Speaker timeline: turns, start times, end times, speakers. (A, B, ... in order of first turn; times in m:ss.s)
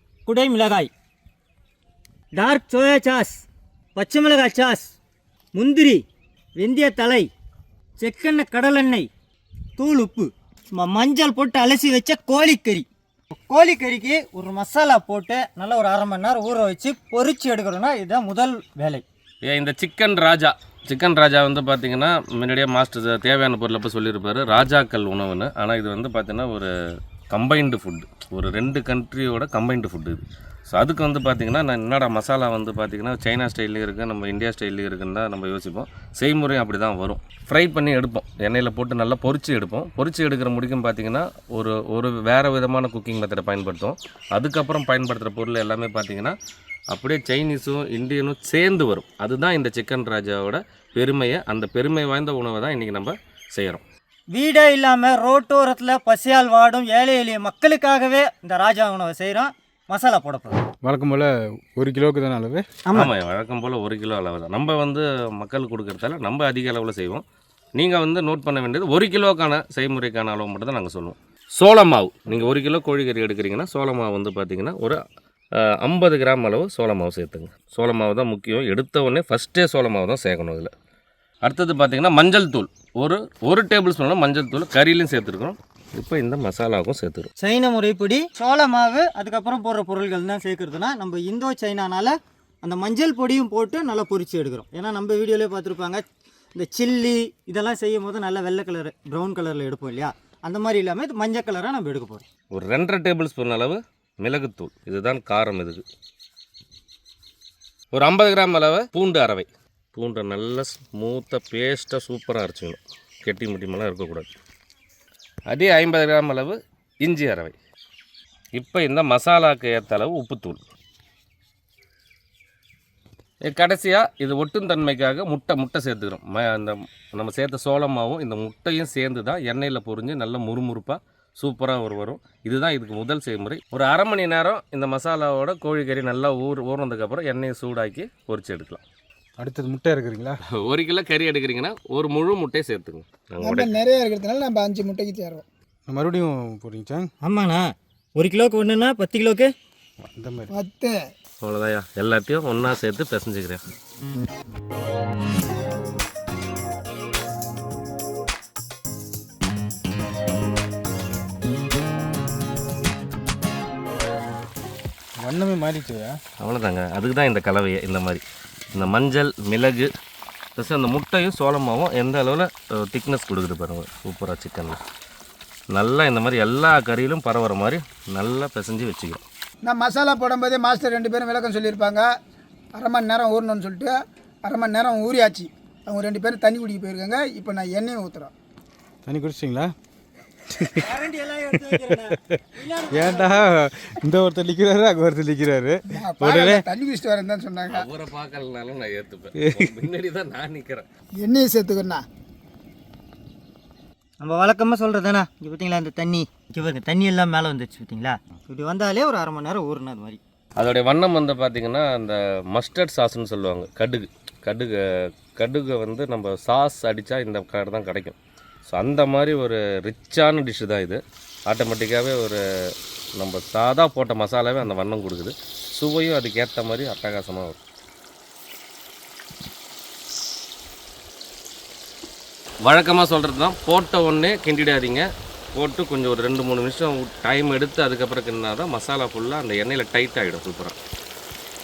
0:00.2-0:00.9 A
0:02.4-0:03.4 A
0:04.0-0:04.9 A
0:05.5-0:06.0 A
0:06.6-0:07.3 A
0:08.0-0:09.1 A
0:09.8-0:19.0 A
0:19.4-0:26.7 B
0:27.3-0:46.3 B
0:46.9-0:53.8 B
0:54.3-1:00.6 A
1:00.8-1:02.6 C
1:02.9-1:07.2 B
1:07.8-1:15.0 B
1:15.6-1:20.7 B
1:21.4-1:27.3 B
1:27.4-1:36.0 A
1:36.5-1:42.2 A
1:42.5-1:45.8 B
1:47.9-1:54.3 B
1:55.5-1:57.5 B
1:58.6-2:00.6 B
2:03.4-2:18.8 B
2:19.4-2:20.4 C
2:20.6-2:23.7 B
2:23.4-2:25.4 D
2:25.9-2:27.1 C
2:27.2-2:29.5 A
2:30.0-2:30.5 C
2:30.5-2:30.9 D
2:31.4-2:33.6 B
2:45.2-2:46.2 C
2:46.4-2:48.2 B
2:48.7-2:49.9 B
2:50.6-2:54.8 B
2:55.7-2:59.2 B
2:59.6-3:02.0 D
3:02.8-3:03.9 D
3:04.4-3:08.3 D
3:09.1-3:09.7 C
3:10.5-3:10.9 C
3:10.8-3:13.5 A
3:11.7-3:12.2 C
3:12.9-3:16.6 C
3:15.9-3:17.8 D
3:17.7-3:20.8 B
3:21.2-3:22.0 D
3:24.2-3:30.2 A
3:30.6-3:34.8 B
3:35.4-3:38.2 B
3:38.7-3:42.4 B
3:43.2-3:47.6 B
3:52.6-4:00.8 B